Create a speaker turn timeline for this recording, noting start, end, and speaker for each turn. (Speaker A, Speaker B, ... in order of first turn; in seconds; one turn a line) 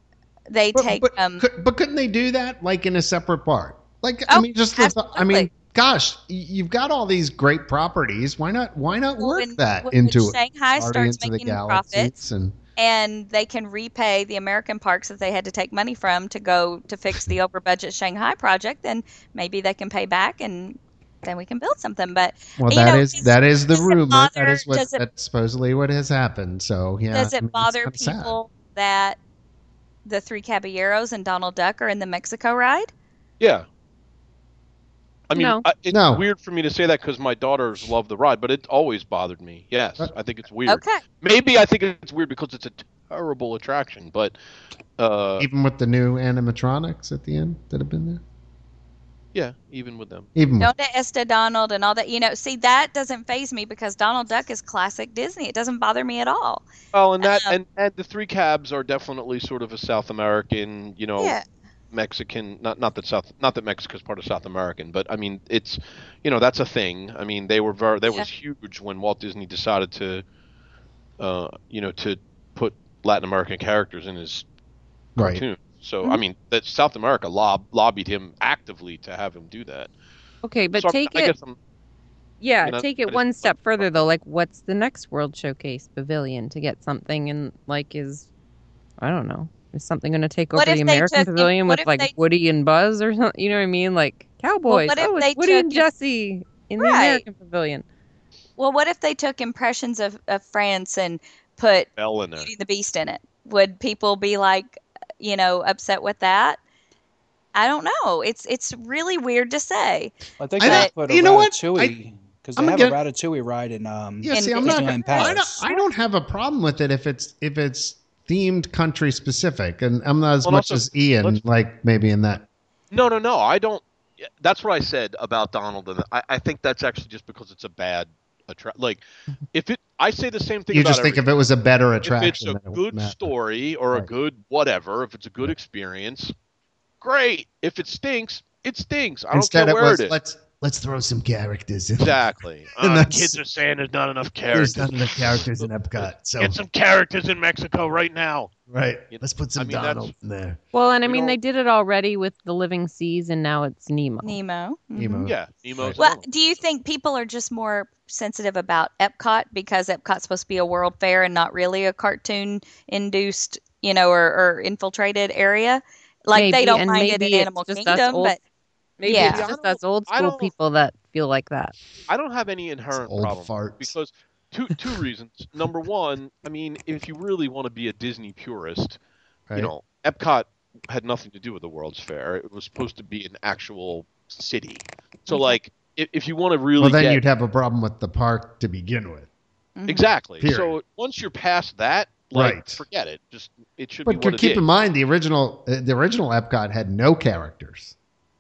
Speaker A: 0.5-1.4
Speaker B: 0.7-12.6
Speaker A: 4.3-5.5
Speaker A: 9.2-12.2
Speaker A: 12.8-25.0
Speaker B: 22.6-28.4
Speaker A: 27.1-29.2
Speaker A: 30.0-32.9
Speaker C: 33.4-33.6
Speaker C: 35.3-44.3
Speaker D: 35.3-35.6
Speaker B: 35.9-36.2
Speaker A: 40.7-41.0
Speaker C: 45.0-45.5
Speaker B: 45.4-48.2
Speaker C: 49.3-50.3
Speaker B: 50.3-50.7
Speaker A: 50.6-56.6
Speaker C: 56.9-61.4
Speaker A: 57.2-57.5
Speaker A: 61.2-61.4
Speaker C: 61.9-70.2
Speaker C: 71.2-74.5
Speaker B: 75.2-75.4
Speaker C: 75.2-79.9
Speaker D: 80.4-81.3
Speaker C: 80.7-81.5
Speaker D: 82.4-88.3
Speaker C: 82.6-83.9
Speaker D: 89.0-97.8
Speaker A: 90.5-92.1
Speaker A: 94.7-95.9
Speaker A: 96.8-97.2
Speaker A: 98.6-106.6
Speaker C: 102.0-102.5
Speaker A: 107.5-110.9
Speaker E: 110.4-115.6
Speaker B: 110.6-111.9
Speaker B: 112.5-113.0
Speaker B: 114.2-122.4
Speaker A: 114.3-115.8
Speaker C: 120.4-121.4
Speaker C: 122.9-131.2
Speaker B: 130.7-133.3
Speaker C: 132.0-136.3
Speaker C: 137.0-140.2
Speaker B: 139.3-142.2
Speaker C: 142.0-148.5
Speaker B: 142.8-143.4
Speaker B: 144.5-146.6
Speaker B: 148.7-150.6
Speaker C: 149.1-150.1
Speaker D: 150.7-154.4
Speaker C: 151.0-151.4
Speaker A: 154.2-155.3
Speaker B: 155.0-156.0
Speaker C: 155.2-156.3
Speaker A: 156.0-168.4
Speaker D: 166.3-168.4
Speaker D: 169.0-171.8
Speaker A: 169.0-169.4
Speaker C: 169.1-170.5
Speaker C: 172.1-179.0
Speaker B: 172.9-173.9
Speaker C: 179.5-187.2
Speaker A: 185.3-185.6
Speaker B: 186.8-189.3
Speaker A: 189.8-190.0
Speaker C: 189.9-194.6
Speaker B: 190.4-190.7
Speaker B: 192.3-192.8
Speaker B: 194.1-197.9